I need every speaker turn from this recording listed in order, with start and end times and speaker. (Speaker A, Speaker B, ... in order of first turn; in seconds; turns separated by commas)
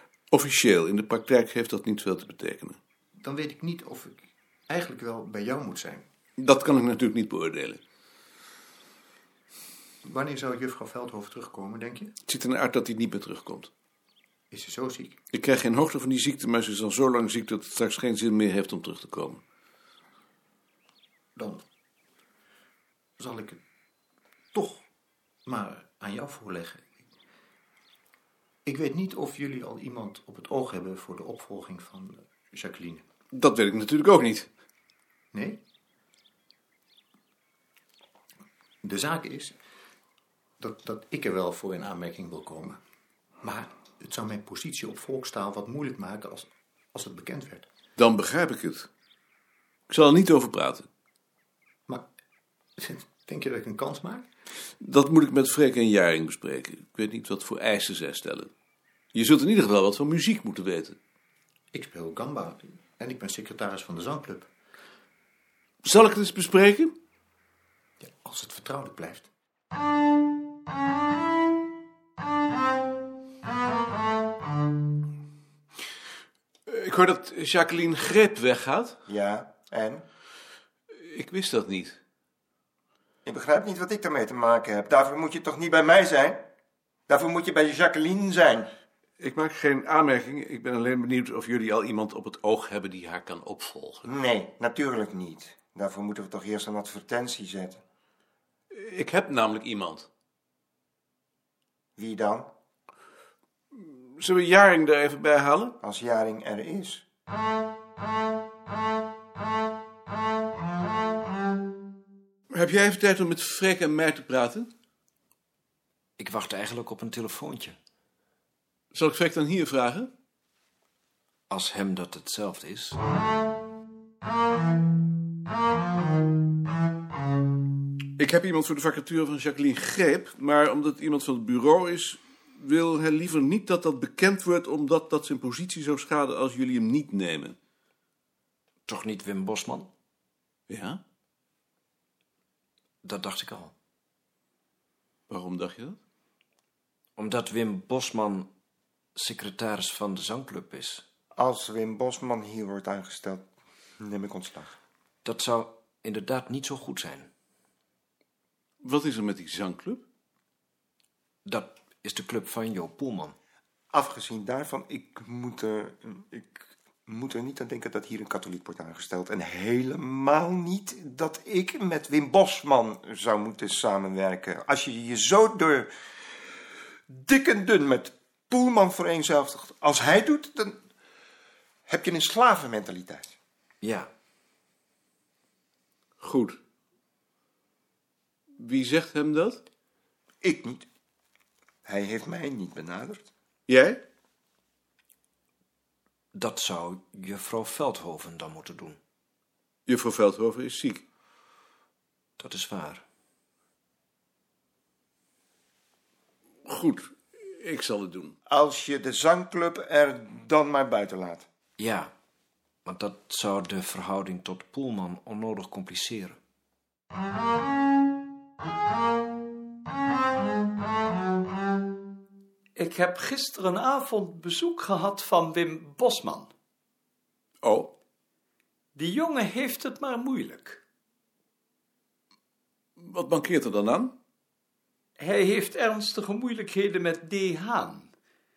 Speaker A: 0.3-2.8, Speaker B: 3.2-6.0, Speaker A: 6.4-7.8, Speaker B: 10.0-12.1, Speaker A: 12.3-13.7, Speaker B: 14.5-15.2, Speaker A: 15.3-19.4, Speaker B: 21.4-21.6, Speaker B: 23.2-23.6, Speaker B: 24.5-24.8, Speaker B: 25.4-26.8, Speaker B: 28.6-33.0, Speaker A: 33.3-34.5, Speaker B: 35.3-35.6, Speaker B: 38.8-39.5, Speaker B: 40.6-42.8, Speaker B: 43.4-47.7, Speaker A: 48.0-48.9, Speaker A: 49.9-50.9, Speaker B: 52.8-54.2, Speaker A: 54.8-58.5, Speaker A: 59.1-61.0, Speaker B: 61.7-64.5, Speaker A: 65.8-66.9, Speaker B: 68.0-69.3, Speaker A: 76.7-79.0, Speaker C: 79.1-80.0, Speaker A: 80.9-82.0, Speaker C: 83.2-86.4, Speaker C: 87.1-88.7, Speaker A: 89.2-94.0, Speaker C: 94.0-97.8, Speaker A: 98.7-100.1, Speaker C: 102.0-102.5, Speaker A: 103.8-105.8, Speaker C: 105.8-107.0, Speaker A: 112.5-114.7, Speaker D: 116.2-117.8, Speaker A: 118.9-120.1, Speaker D: 121.5-123.0, Speaker A: 128.2-137.6, Speaker D: 138.9-139.9, Speaker A: 140.7-141.0, Speaker D: 143.0-143.7, Speaker A: 145.3-146.0, Speaker D: 147.2-148.5, Speaker D: 149.2-151.0, Speaker C: 151.3-153.5, Speaker C: 154.0-154.7, Speaker D: 155.2-157.3, Speaker A: 158.8-160.0, Speaker D: 161.4-163.3, Speaker C: 163.9-175.9, Speaker C: 177.1-180.8, Speaker C: 181.9-183.3, Speaker D: 183.8-184.1, Speaker A: 186.2-186.6, Speaker A: 188.6-189.6, Speaker C: 190.4-190.8, Speaker C: 191.8-193.3, Speaker A: 193.7-194.0, Speaker D: 196.3-199.0, Speaker A: 199.9-201.0, Speaker D: 202.4-203.0, Speaker A: 206.7-208.3, Speaker C: 208.5-211.4, Speaker D: 211.8-212.1, Speaker D: 212.8-216.4, Speaker E: 222.8-226.5, Speaker A: 227.6-227.9, Speaker E: 228.9-230.8, Speaker A: 233.0-234.1, Speaker E: 235.2-238.1